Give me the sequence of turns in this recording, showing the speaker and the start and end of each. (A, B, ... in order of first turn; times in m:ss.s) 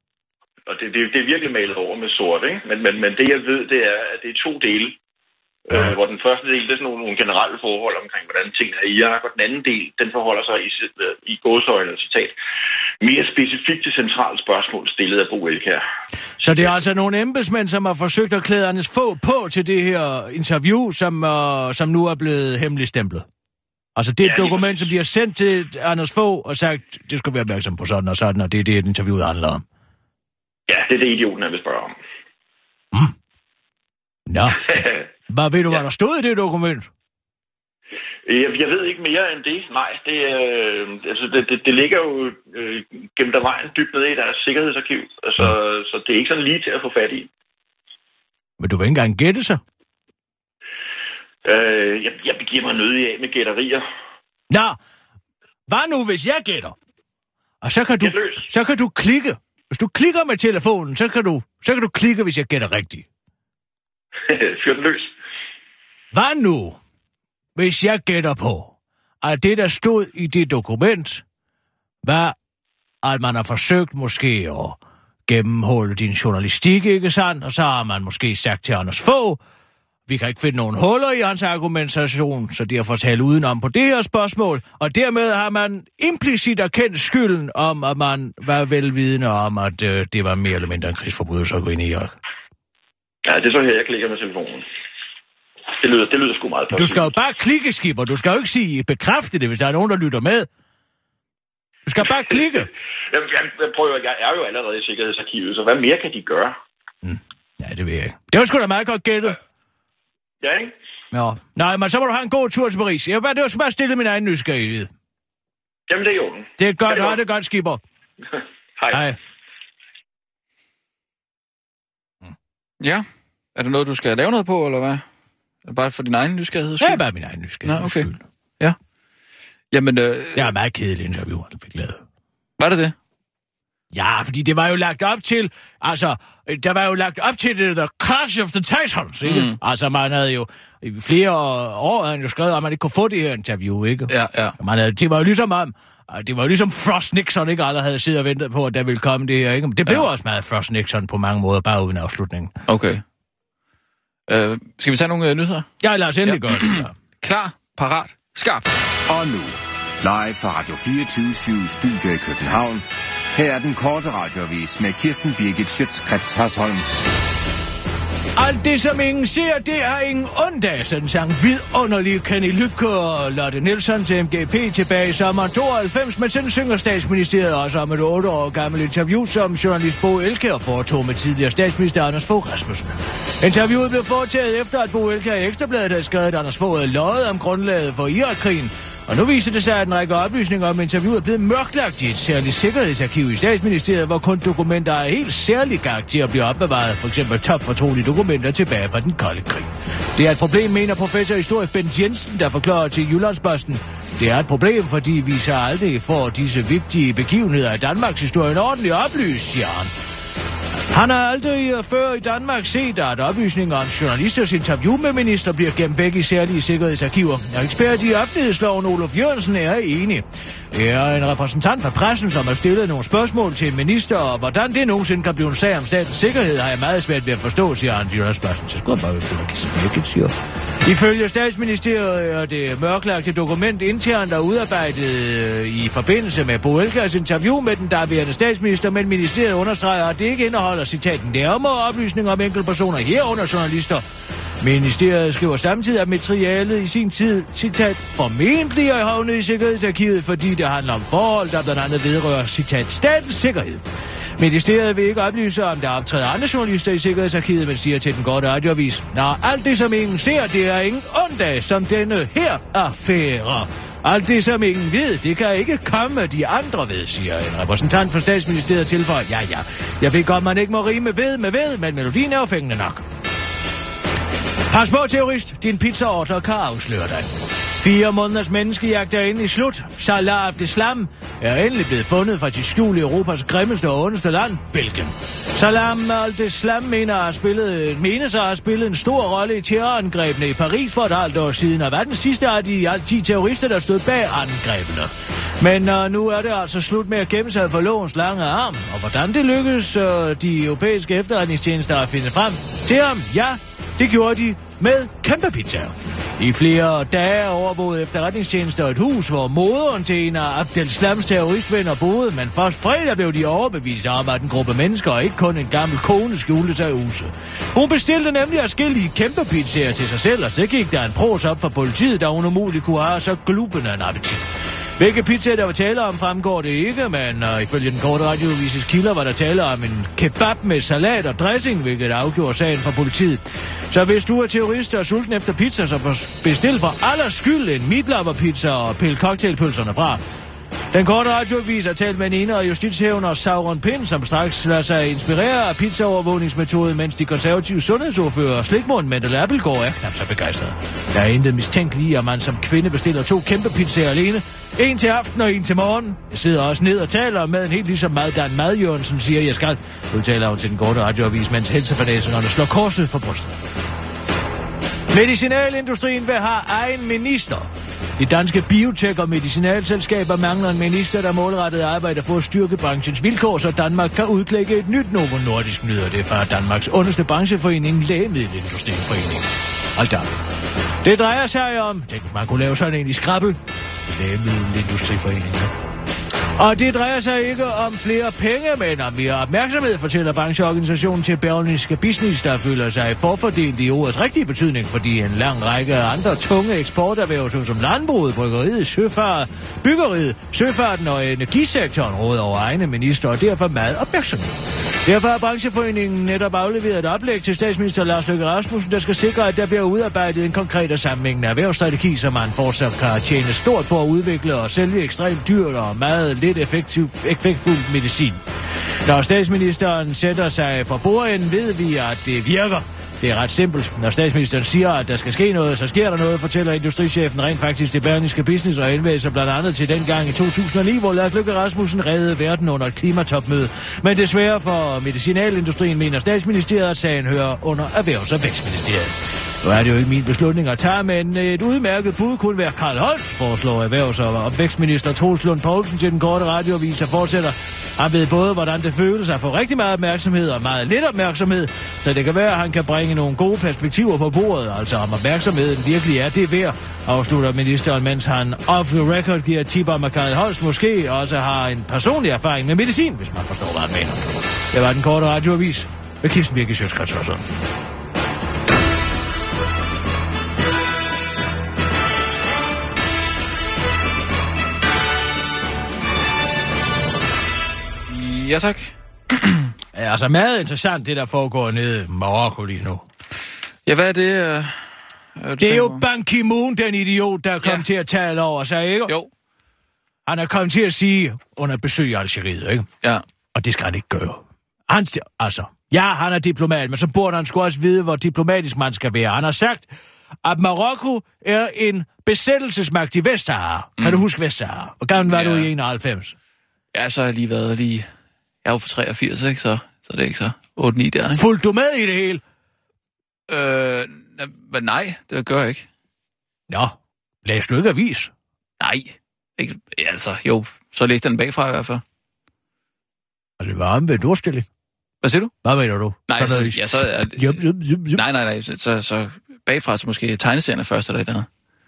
0:00.6-0:05.0 A
0:05.7-0:12.3 A
0:13.0-0:15.8 A
0:16.4-0:23.3 B
0:24.0-0:29.6 B
0:24.2-0:24.7 A
0:30.7-0:31.9 A
0:34.3-0:36.9 B
0:34.6-0:35.0 A
0:38.2-0:47.3 A
0:48.6-0:49.6 B
0:51.4-0:53.8 A
0:54.5-0:54.8 B
0:55.7-0:56.8 B
0:57.6-1:03.1 B
0:58.0-0:58.4 A
1:04.2-1:05.1 A
1:06.1-1:06.8 B
1:07.6-1:11.2 B
1:12.0-1:12.4 B
1:13.0-1:19.4 B
1:20.1-1:32.1 B
1:33.2-1:34.6 A
1:35.8-1:37.1 A
1:36.7-1:40.5 B
1:41.8-1:42.7 B
1:43.1-1:46.5 A
1:47.0-1:49.4 B
1:50.4-1:50.7 A
1:51.1-1:54.9 B
1:55.9-1:57.2 A
1:56.6-1:57.8 B
1:58.8-1:59.1 A
1:58.9-1:59.2 B
2:02.8-2:03.0 C
2:03.6-2:05.0 C
2:05.6-2:07.0 C
2:06.8-2:08.2 B
2:07.6-2:08.1 C
2:09.7-2:10.5 C
2:10.3-2:12.0 B
2:12.6-2:13.0 C
2:13.9-2:32.5 B
2:19.2-2:19.6 C
2:24.1-2:24.6 C
2:32.7-2:33.0 C
2:34.3-2:35.7 C
2:35.8-2:36.9 B
2:36.2-2:38.7 C
2:39.1-2:46.8 D
2:48.4-3:29.9 B
3:30.9-3:50.3 B
3:50.8-4:04.0 B
4:04.6-4:13.8 B
4:14.4-4:33.0 B
4:34.7-5:40.2 B
5:40.9-6:03.6 B
6:05.1-6:20.3 B
6:21.0-6:25.7 B
6:26.6-6:44.5 B
6:45.0-6:58.4 B
6:59.0-7:47.5 B
7:58.1-7:59.7 C
7:59.9-8:03.0 B
8:03.8-8:04.8 C
8:05.4-8:06.0 C
8:05.6-8:09.1 B
8:10.2-8:12.9 B
8:13.5-8:19.9 B
8:20.4-8:26.3 B
8:25.2-8:25.7 C
8:26.9-8:28.1 C
8:28.6-8:31.4 C
8:31.3-8:32.4 B
8:33.5-8:35.9 C
8:36.7-8:38.3 B
8:38.8-8:42.0 C
8:43.6-8:44.7 B
8:45.2-8:45.5 C
8:45.6-8:48.2 B
8:46.3-8:51.5 C